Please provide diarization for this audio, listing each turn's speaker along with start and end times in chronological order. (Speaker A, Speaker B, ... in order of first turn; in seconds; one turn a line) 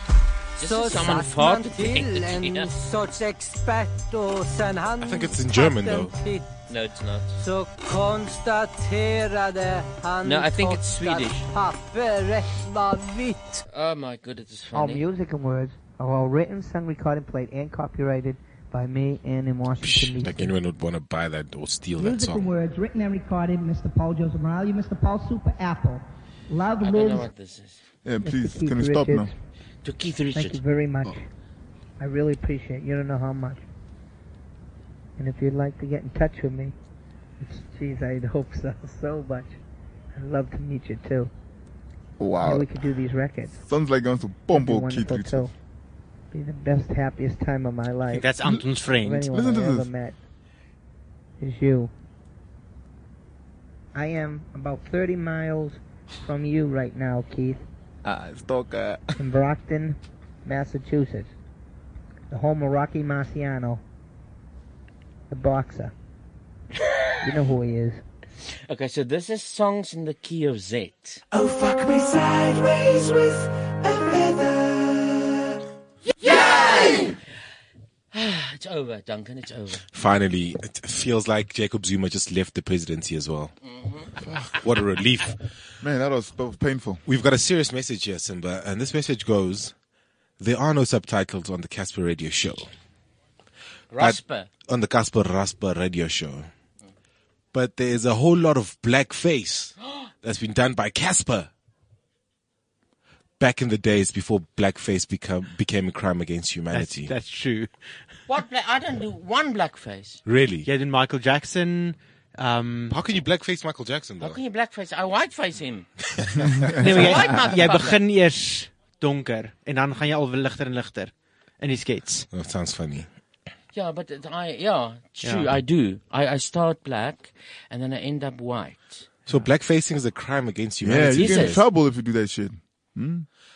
Speaker A: 0.6-2.7
Speaker B: 0.6-6.5
Speaker C: 5.0-6.1
Speaker A: 6.7-7.4
Speaker B: 7.4-13.6
Speaker A: 10.2-11.5
Speaker A: 13.7-15.0
Speaker D: 14.7-20.6
Speaker C: 19.8-22.6
Speaker D: 22.0-26.0
Speaker D: 26.5-27.1
Speaker A: 26.8-27.8
Speaker E: 28.1-29.3
Speaker D: 28.2-29.3
Speaker A: 29.8-30.6
Speaker D: 30.3-31.3
Speaker D: 32.0-33.6
Speaker D: 35.2-36.7
Speaker D: 37.4-39.6
Speaker D: 40.1-41.3
Speaker E: 42.2-42.7
Speaker D: 42.4-43.6
Speaker E: 43.6-45.5
Speaker D: 44.5-45.5
Speaker D: 46.3-48.3
Speaker F: 48.1-49.3
Speaker D: 49.0-50.2
Speaker E: 49.3-49.9
Speaker D: 51.4-51.9
Speaker D: 53.9-57.6
Speaker E: 58.0-59.2
Speaker D: 59.2-61.3
Speaker D: 62.3-63.8
Speaker D: 65.3-65.9
Speaker D: 67.2-68.0
Speaker A: 68.7-71.2
Speaker G: 71.3-74.5
Speaker A: 76.3-77.1
Speaker A: 78.1-79.8
Speaker C: 79.9-83.5
Speaker A: 83.6-84.1
Speaker C: 84.5-85.4
Speaker E: 85.8-87.0
Speaker C: 87.1-89.7
Speaker C: 90.4-92.7
Speaker A: 93.9-94.5
Speaker C: 94.0-96.5
Speaker C: 97.5-101.5
Speaker C: 103.4-107.1
Speaker F: 106.7-107.7
Speaker A: 108.3-110.2
Speaker C: 110.3-110.7
Speaker F: 110.7-113.0
Speaker C: 112.9-114.4
Speaker A: 114.2-115.9
Speaker C: 116.2-116.4
Speaker E: 116.4-116.9
Speaker F: 116.8-122.3
Speaker A: 116.9-118.0
Speaker C: 122.3-123.1
Speaker A: 123.7-129.1
Speaker F: 125.2-125.6
Speaker C: 129.3-131.6
Speaker E: 130.8-133.3
Speaker A: 131.2-131.6